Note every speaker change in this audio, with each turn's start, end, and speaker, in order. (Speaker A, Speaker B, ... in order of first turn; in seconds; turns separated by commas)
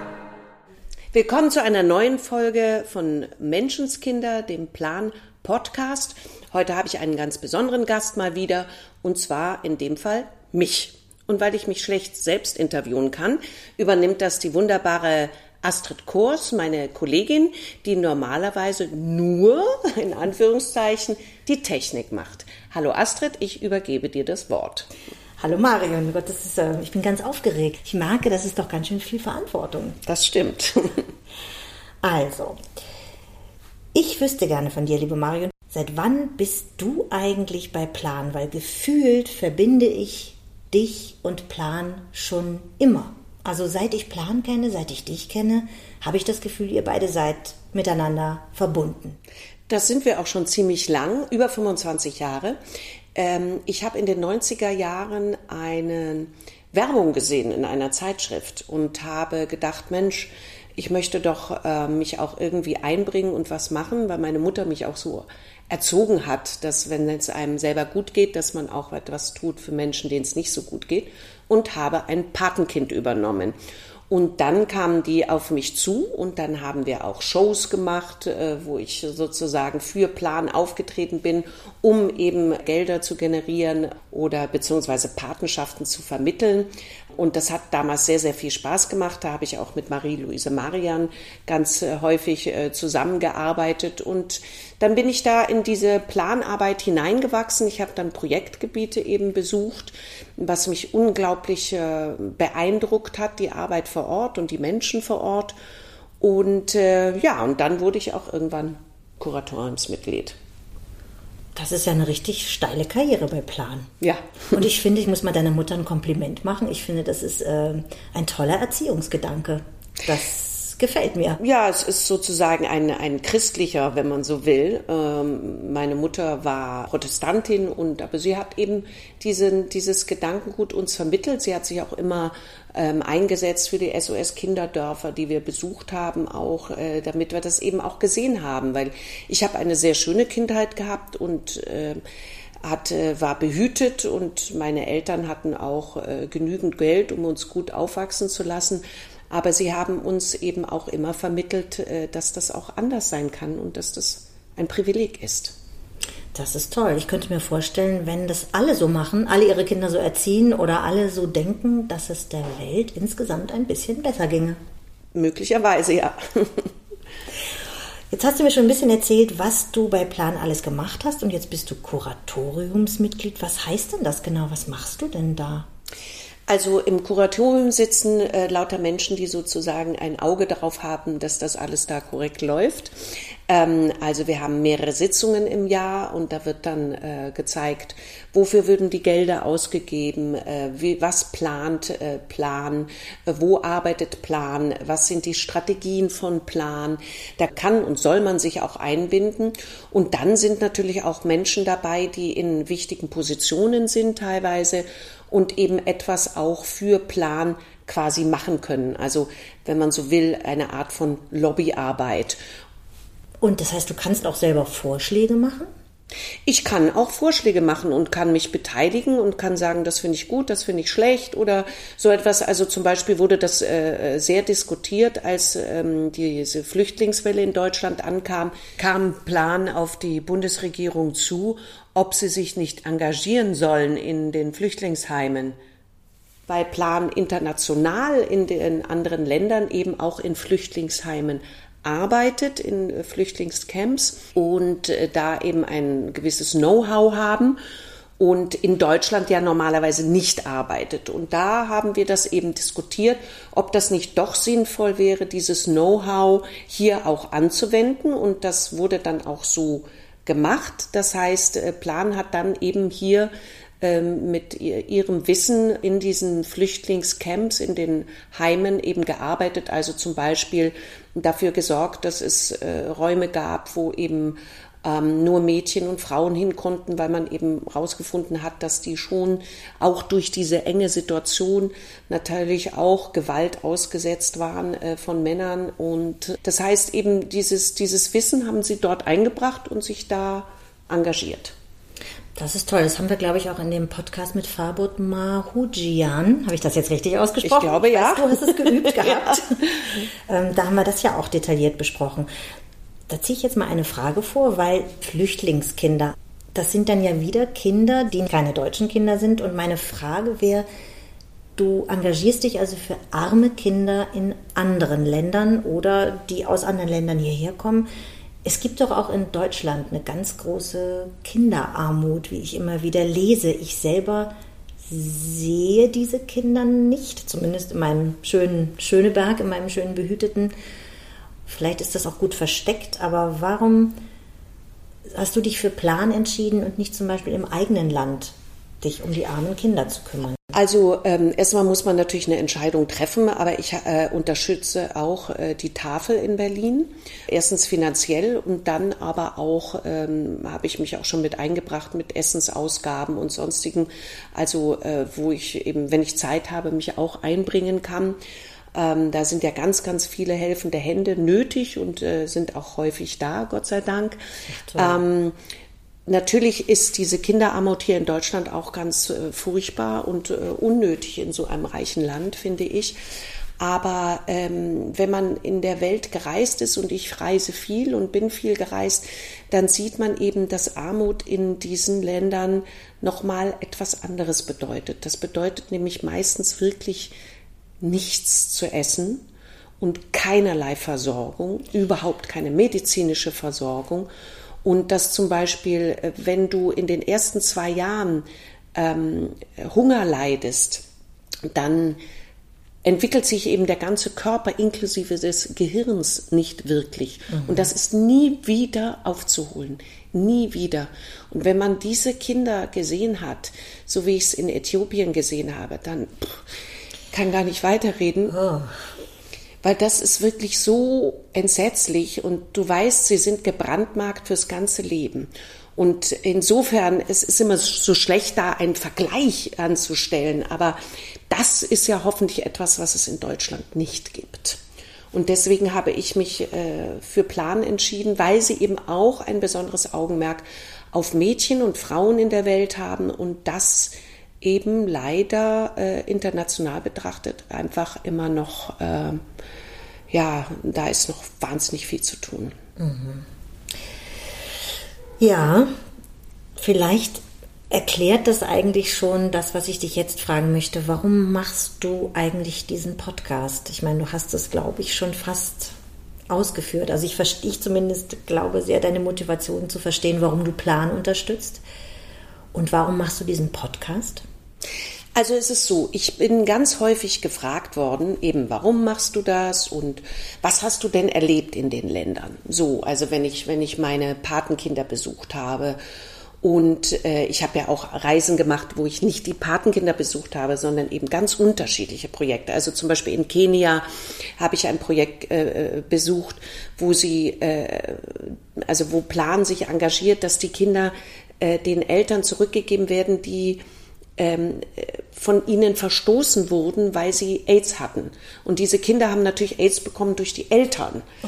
Speaker A: 1.1-24.9, Speaker B: 25.4-30.0, Speaker A: 30.1-31.1, Speaker B: 32.0-32.6, Speaker B: 33.9-49.2, Speaker A: 49.7-52.6, Speaker A: 53.1-73.5, Speaker A: 74.1-105.5, Speaker A: 106.2-110.4, Speaker B: 111.5-113.9, Speaker A: 114.0-114.5, Speaker B: 114.5-121.4, Speaker A: 121.4-142.0, Speaker A: 142.6-155.6, Speaker B: 156.3-164.6, Speaker A: 165.2-166.7, Speaker B: 168.1-175.7, Speaker A: 176.5-182.9, Speaker A: 183.5-212.4, Speaker B: 213.4-215.7, Speaker A: 216.5-235.6, Speaker A: 236.5-247.6, Speaker A: 248.2-291.6, Speaker B: 292.4-299.6, Speaker A: 297.4-299.9, Speaker B: 300.3-302.3, Speaker B: 303.1-310.7, Speaker B: 311.6-317.9, Speaker B: 318.4-330.5, Speaker B: 331.5-334.0, Speaker B: 335.1-340.5, Speaker A: 340.5-358.2, Speaker A: 358.8-364.2, Speaker B: 364.5-365.0, Speaker A: 364.7-365.4, Speaker A: 366.1-373.0, Speaker A: 373.6-387.1, Speaker A: 387.8-389.2, Speaker A: 389.8-394.1, Speaker A: 394.6-400.8, Speaker A: 401.5-402.0, Speaker A: 402.8-416.4, Speaker B: 407.3-407.7, Speaker A: 417.1-418.4, Speaker B: 418.3-418.8, Speaker A: 419.6-430.8, Speaker A: 431.3-434.6, Speaker A: 435.1-449.2, Speaker A: 450.1-452.6, Speaker B: 452.8-453.3, Speaker B: 455.2-455.7, Speaker B: 456.6-465.8, Speaker B: 466.3-471.6, Speaker B: 472.5-474.2, Speaker A: 475.2-485.8, Speaker A: 486.4-493.9, Speaker A: 494.4-503.6, Speaker A: 504.2-511.0